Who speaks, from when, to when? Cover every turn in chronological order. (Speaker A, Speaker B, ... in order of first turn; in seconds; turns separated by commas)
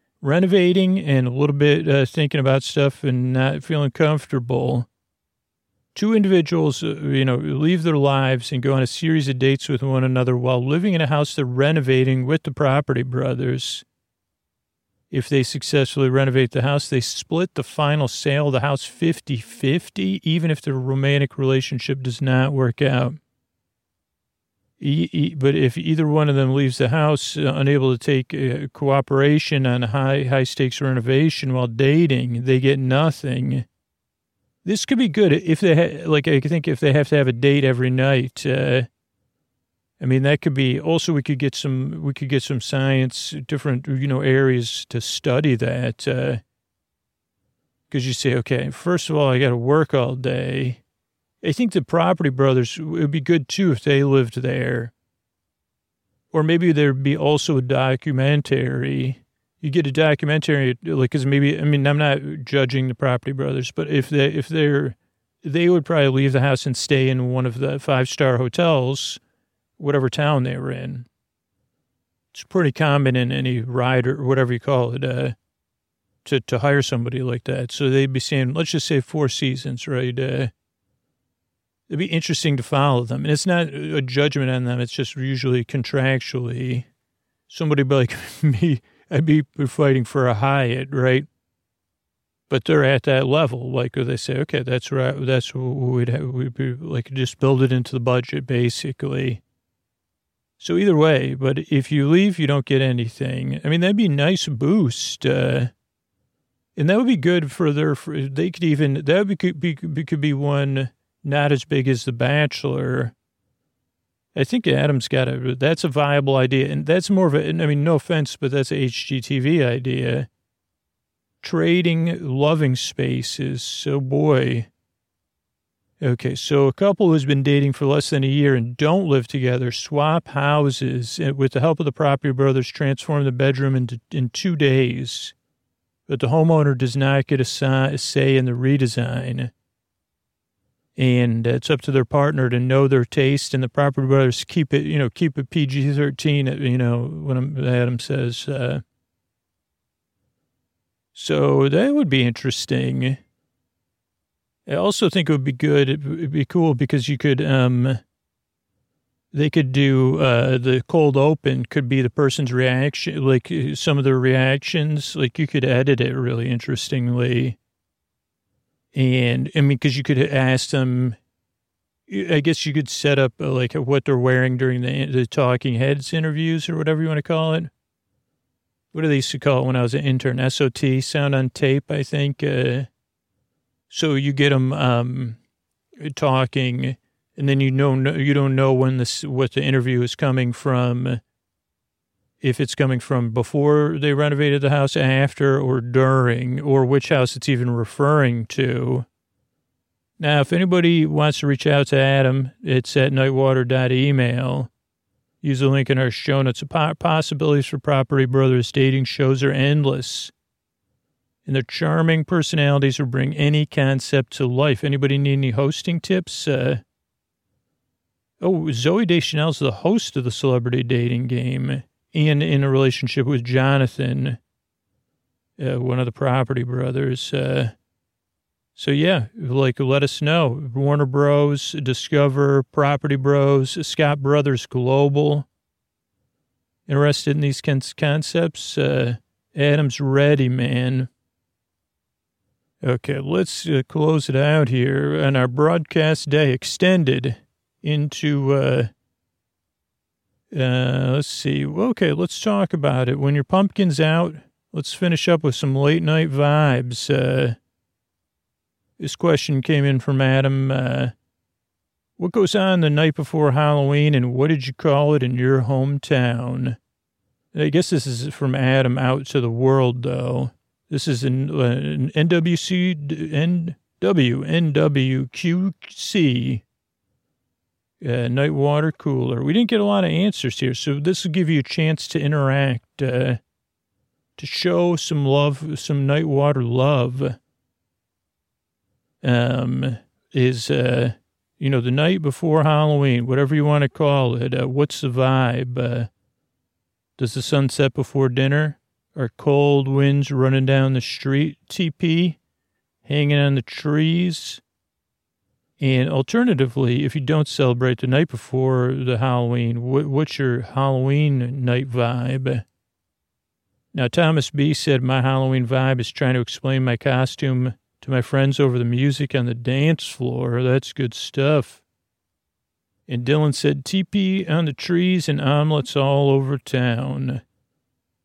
Speaker A: 0.2-4.9, Speaker A: 6.0-13.8, Speaker A: 15.1-23.2, Speaker A: 24.8-33.7, Speaker A: 34.6-38.9, Speaker A: 40.0-46.4, Speaker A: 47.9-50.8, Speaker A: 51.4-54.9, Speaker A: 56.3-69.2, Speaker A: 69.8-71.1, Speaker A: 72.3-75.4, Speaker A: 76.2-80.5, Speaker A: 81.9-86.9, Speaker A: 87.5-91.3, Speaker A: 92.5-99.4, Speaker A: 100.6-105.7, Speaker A: 106.8-113.1, Speaker A: 114.3-120.3, Speaker A: 121.4-124.7, Speaker A: 126.0-135.3, Speaker A: 136.1-139.5, Speaker A: 141.0-148.8, Speaker A: 151.1-153.2, Speaker A: 154.7-158.0, Speaker A: 159.3-167.6, Speaker A: 168.9-171.2, Speaker A: 172.1-177.7, Speaker A: 178.9-182.9, Speaker A: 183.9-185.4, Speaker A: 186.0-191.2, Speaker A: 192.4-199.1, Speaker A: 200.2-204.7, Speaker A: 205.4-210.3, Speaker A: 211.4-216.8, Speaker A: 218.4-224.4, Speaker A: 225.6-227.8, Speaker A: 228.8-235.5, Speaker A: 236.9-241.1, Speaker A: 242.8-248.9, Speaker A: 250.5-257.6, Speaker A: 259.0-261.1, Speaker A: 262.2-266.8, Speaker A: 267.5-276.6, Speaker A: 278.0-283.4, Speaker A: 284.4-287.4, Speaker A: 289.2-296.1, Speaker A: 297.2-302.4, Speaker A: 303.0-304.6, Speaker A: 305.8-312.6, Speaker A: 313.9-321.8, Speaker A: 323.1-327.4